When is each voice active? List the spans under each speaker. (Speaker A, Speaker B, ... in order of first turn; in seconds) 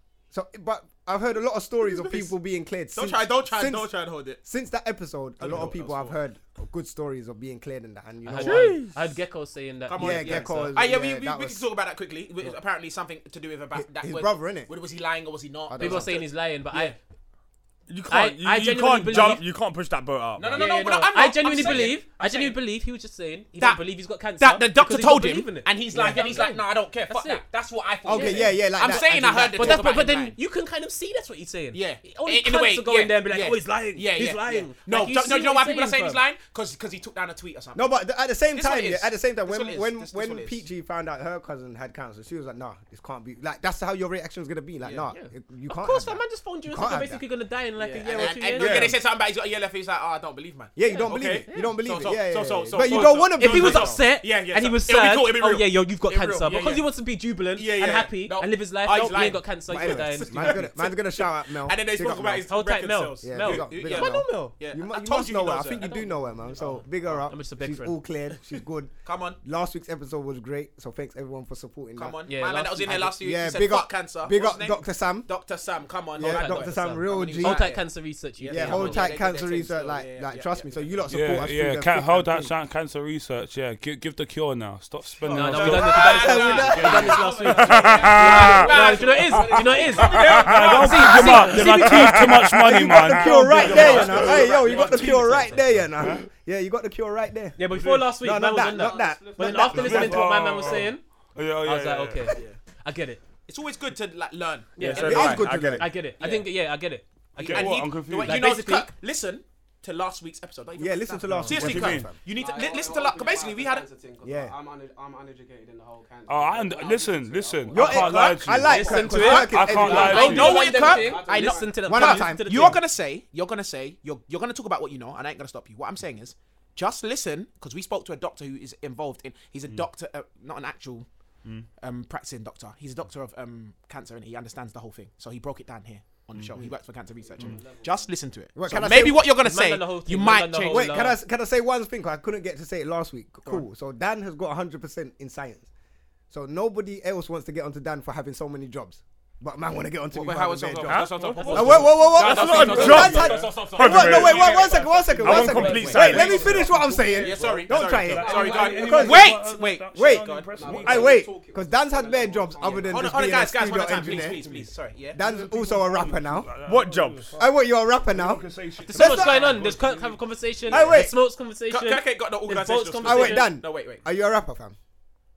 Speaker A: 0.3-8.8, 10.0-11.6, 13.8-14.7, 15.7-16.1, 25.9-26.3, 28.0-29.9, 37.7-47.2, 50.8-54.0, 59.7-62.5, 63.2-68.9, 69.4-75.3, 76.2-77.7, 78.5-82.5, 85.9-87.3, 88.2-88.7, 92.4-97.6, 98.1-100.2, 105.0-105.9, 110.8-112.1, 114.2-114.5, 117.7-120.2, 121.8-122.8, 138.6-139.3, 140.7-145.7, 146.3-159.4, 159.9-166.5, 167.4-169.4, 170.7-171.1, 173.0-174.7
Speaker B: 1.8-2.3, 2.9-4.4, 5.4-6.2, 9.9-16.3, 20.4-22.6, 23.6-23.8, 24.4-30.4, 31.7-38.0, 38.5-40.6, 44.8-45.2, 47.9-56.9, 57.5-67.2, 69.0-69.4, 71.9-77.9, 78.4-81.4, 85.4-92.5, 93.4-95.6, 103.5-105.4, 106.2-106.5, 107.5-113.8, 119.9-131.1, 131.8-140.9, 150.1-156.4, 157.2-160.5, 162.6-165.2, 171.7-174.0
Speaker C: 8.2-10.8, 15.8-16.9, 18.1-19.4, 20.5-27.4, 28.1-36.2, 45.7-48.9, 50.9-51.8, 52.9-60.6, 62.5-64.5, 65.8-66.1, 67.1-68.0, 72.3-72.9, 76.2-79.1, 85.3-92.6, 93.7-95.4, 97.6-101.0, 101.6-103.2, 104.8-108.9, 118.5-122.8, 139.4-141.2, 151.3-153.2, 168.8-173.5
Speaker D: 8.4-9.1, 17.9-20.6, 48.5-49.0, 88.2-88.7, 104.8-105.9, 150.9-156.6, 166.6-167.3
Speaker E: 21.6-21.9, 85.2-91.7, 93.5-95.6, 98.5-100.8, 102.3-102.6, 112.1-121.9, 137.2-138.1, 152.8-153.5, 154.6-157.7, 158.2-159.2, 160.5-164.3
Speaker F: 81.1-86.0, 87.6-88.7, 90.1-94.5, 96.0-96.2, 97.7-98.1, 99.5-102.3, 107.4-108.5, 111.4-112.2, 116.3-120.6, 150.9-151.9, 153.8-154.7, 155.2-161.3, 165.2-167.4, 168.1-170.2